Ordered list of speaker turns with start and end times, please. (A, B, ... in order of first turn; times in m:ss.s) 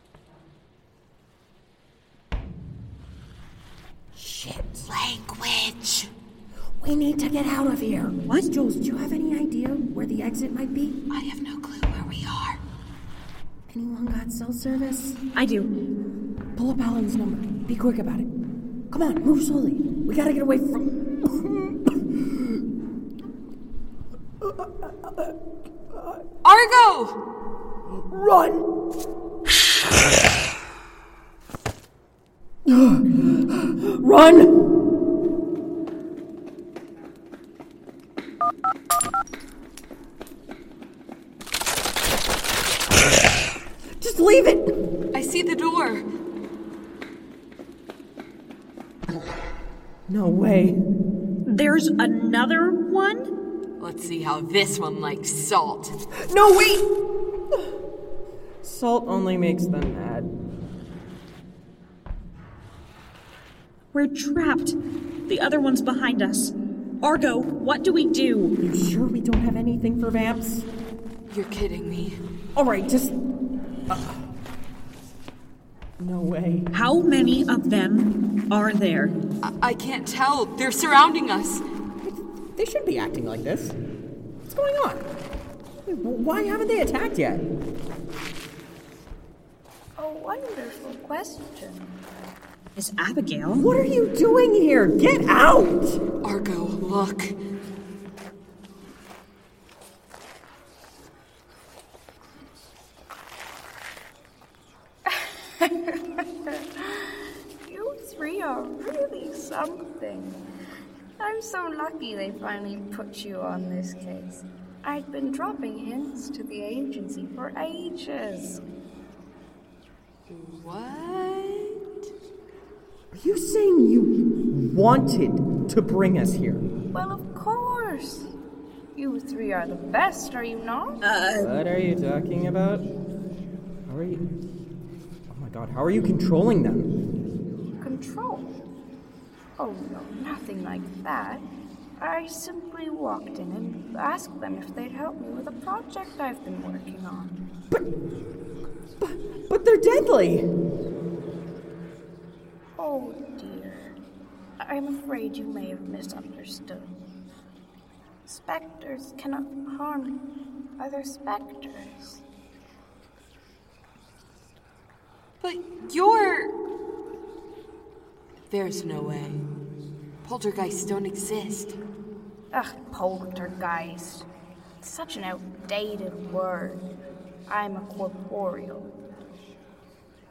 0:04.2-0:04.8 A
0:04.8-0:06.1 B
0:06.8-0:11.0 A
0:11.1-0:12.6 B
0:13.7-0:15.2 A
0:15.4-0:15.7 C
0:16.6-0:18.3 A
0:18.9-0:22.6 A
0:24.4-0:25.3 A
0:25.9-0:26.2 A
0:26.4-0:27.2 B
0:27.9-0:28.6 A
0:32.7-0:34.6 A
0:44.0-0:44.7 A
0:45.1-0:46.0 B
0:50.1-0:50.8 A
0:51.5-0:53.2 C
0:53.8-0:56.0 B
0:56.2-0:56.9 A
0:58.6-1:00.3 A
1:03.9-1:04.8 C
1:05.3-1:08.5 C
1:08.6-1:10.7 A
1:11.3-1:12.2 B
1:12.6-1:13.2 A
1:13.9-1:14.3 A
1:16.0-1:16.7 A
1:16.7-1:19.1 C
1:19.4-1:21.6 B
1:22.0-1:23.8 A
1:24.5-1:25.1 A
1:25.9-1:27.4 A
1:30.0-1:31.9 D
1:32.8-1:33.6 C
1:33.5-1:36.0 A
1:36.2-1:37.4 B
1:45.6-1:46.0 D
1:46.5-1:47.0 D
1:47.7-1:50.4 D
1:51.2-1:58.6 D
2:00.3-2:01.8 B
2:03.1-2:06.6 A
2:06.9-2:08.3 D
2:09.0-2:11.0 D
2:11.0-2:11.5 C
2:11.4-2:12.9 A
2:13.9-2:14.2 A
2:15.3-2:16.9 A
2:17.8-2:18.5 D
2:19.6-2:21.4 D
2:22.0-2:27.4 D
2:29.0-2:30.5 A
2:32.8-2:34.0 D
2:34.6-2:36.9 D
2:38.3-2:40.2 D
2:40.8-2:42.2 D
2:45.4-2:46.5 B
2:48.5-2:49.5 B
2:50.2-2:51.8 B
2:52.5-2:54.3 D
2:54.8-2:56.8 D
2:57.5-2:58.9 D